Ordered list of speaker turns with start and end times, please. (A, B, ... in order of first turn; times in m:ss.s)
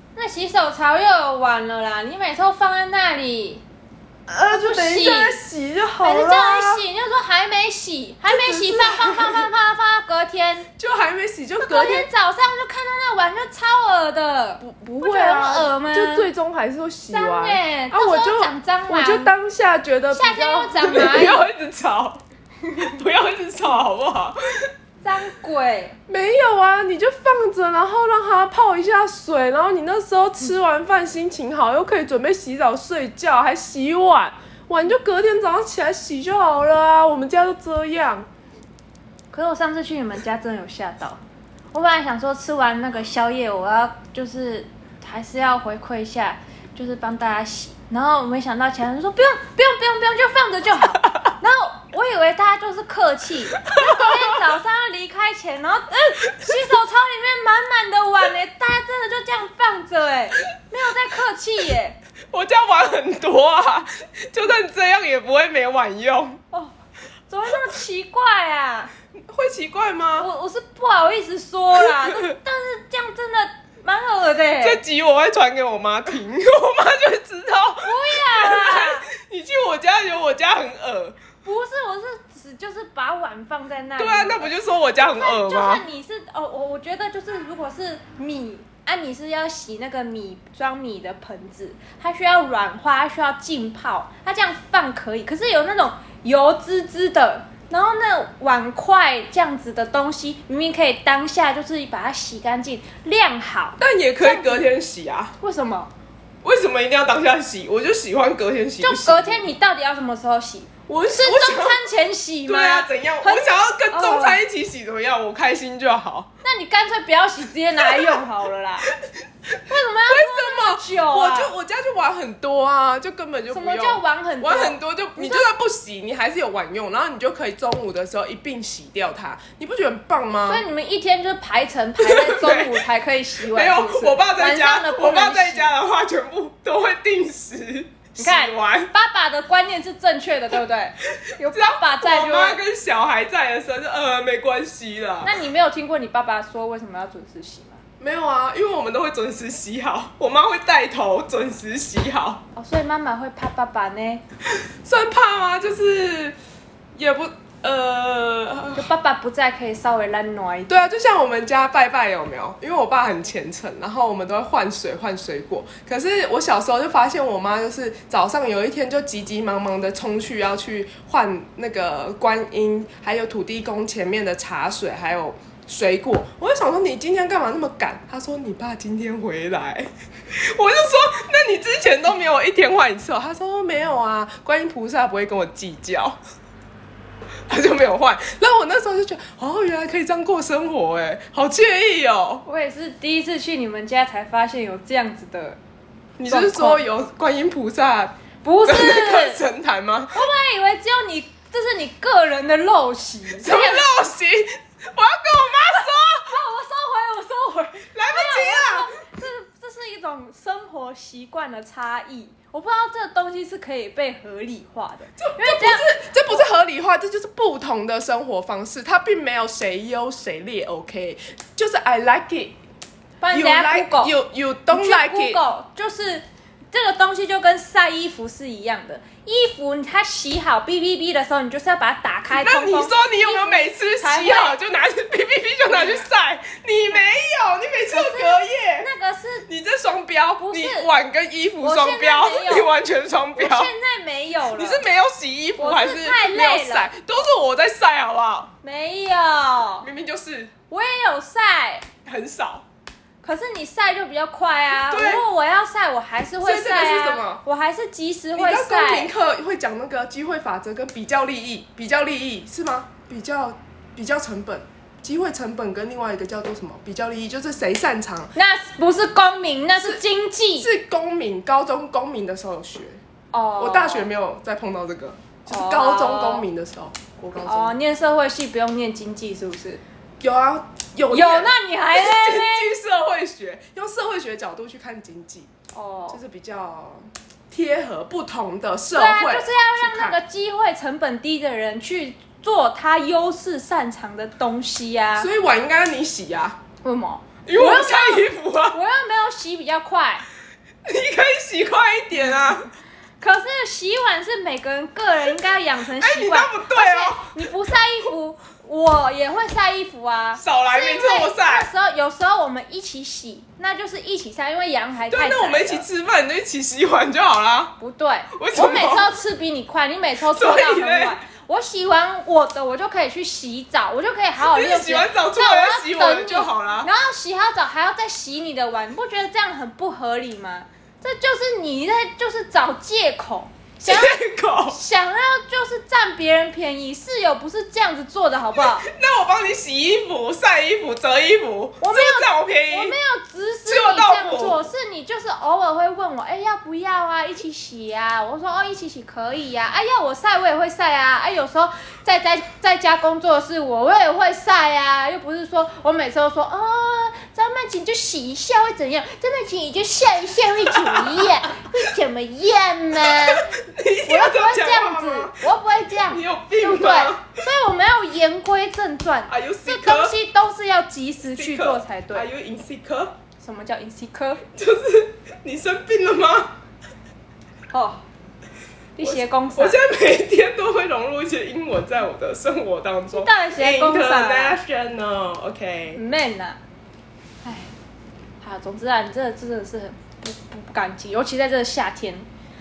0:00.1-0:03.6 A
0:04.3-0:06.8 B
0:04.5-0:05.4 A
0:06.0-0:10.7 A
0:08.2-0:09.5 B
0:10.8-0:12.1 B
0:11.6-0:16.3 A
0:14.6-0:22.2 B
0:17.1-0:19.3 A
0:20.1-0:21.4 A
0:22.7-0:24.4 B
0:25.0-0:26.0 A
0:26.1-0:38.3 B
0:39.3-0:41.2 A
0:41.7-1:02.0 A
0:53.7-0:54.4 B
1:02.3-1:06.4 B
1:07.3-1:08.9 A
1:09.1-1:10.3 B
1:10.2-1:14.8 A
1:12.0-1:12.4 B
1:14.6-1:21.2 B
1:17.8-1:19.1 A
1:21.4-1:44.6 A
1:24.0-1:25.9 B
1:43.8-1:45.3 B
1:45.4-1:45.9 A
1:46.4-1:49.5 B
1:48.8-1:54.4 A
1:50.9-1:51.8 B
1:52.4-1:56.3 B
1:56.4-1:58.9 A
1:57.8-1:58.2 B
1:59.6-2:01.5 A
2:00.1-2:10.6 B
2:03.5-2:05.4 A
2:10.4-2:15.7 A
2:12.0-2:12.8 B
2:13.4-2:18.9 B
2:18.2-2:22.6 A
2:21.2-2:25.4 B
2:25.2-2:27.8 A
2:28.0-2:32.4 B
2:32.5-2:34.2 A
2:34.8-2:36.4 B
2:37.0-2:38.9 B
2:38.8-2:40.8 A
2:40.7-3:06.2 B
3:07.5-3:12.4 B
3:12.4-3:15.6 A
3:16.2-3:20.2 B
3:16.3-3:16.8 A
3:18.4-3:19.4 A
3:20.1-3:23.9 A
3:23.4-3:26.4 B
3:25.8-3:36.5 A
3:27.9-3:28.9 B
3:35.2-3:42.6 B
3:43.2-3:44.1 A
3:43.3-3:45.4 B
3:44.7-3:54.6 A
3:52.3-3:58.9 B
3:57.9-3:59.5 A
3:59.5-4:03.7 B
4:00.4-4:00.9 A
4:01.6-4:02.7 A
4:03.4-4:04.8 A
4:04.5-4:08.5 B
4:05.6-4:06.9 A
4:08.6-4:09.9 A
4:09.8-4:10.5 B
4:10.7-4:11.9 A
4:12.0-4:12.6 B
4:13.2-4:19.1 A
4:14.8-4:15.2 B
4:16.4-4:17.4 B
4:18.3-4:28.3 B
4:28.3-4:30.7 A
4:29.8-4:30.0 B
4:30.6-4:33.0 B
4:33.3-4:34.1 A
4:33.6-4:37.8 B
4:35.5-4:36.4 A
4:37.4-4:39.8 A
4:40.2-4:45.5 B
4:41.1-4:42.7 A
4:45.7-4:46.2 A
4:46.1-4:50.2 B
4:48.9-4:55.3 A
4:55.2-4:56.6 B
4:56.8-5:00.2 A
4:57.4-4:58.8 B
5:00.8-5:02.7 B
5:03.2-5:15.8 A
5:05.9-5:07.4 B
5:10.4-5:11.7 B
5:15.1-5:17.7 B
5:17.8-5:34.2 A
5:18.3-5:19.1 B
5:20.3-5:21.2 B
5:24.4-5:26.9 B
5:33.8-5:34.8 B
5:34.7-5:38.8 A
5:38.6-5:43.0 B
5:41.8-6:03.5 A
5:43.6-5:44.7 B
6:00.7-6:01.0 B
6:03.0-6:07.4 B
6:04.0-6:12.3 A
6:09.3-6:10.2 B
6:11.3-6:13.1 B
6:13.4-6:14.4 A
6:14.5-6:16.5 B
6:17.7-6:18.0 A
6:19.0-6:19.8 A
6:19.0-6:26.0 B
6:23.1-6:24.6 A
6:25.9-6:26.6 A
6:27.4-6:27.7 A
6:28.4-6:32.3 A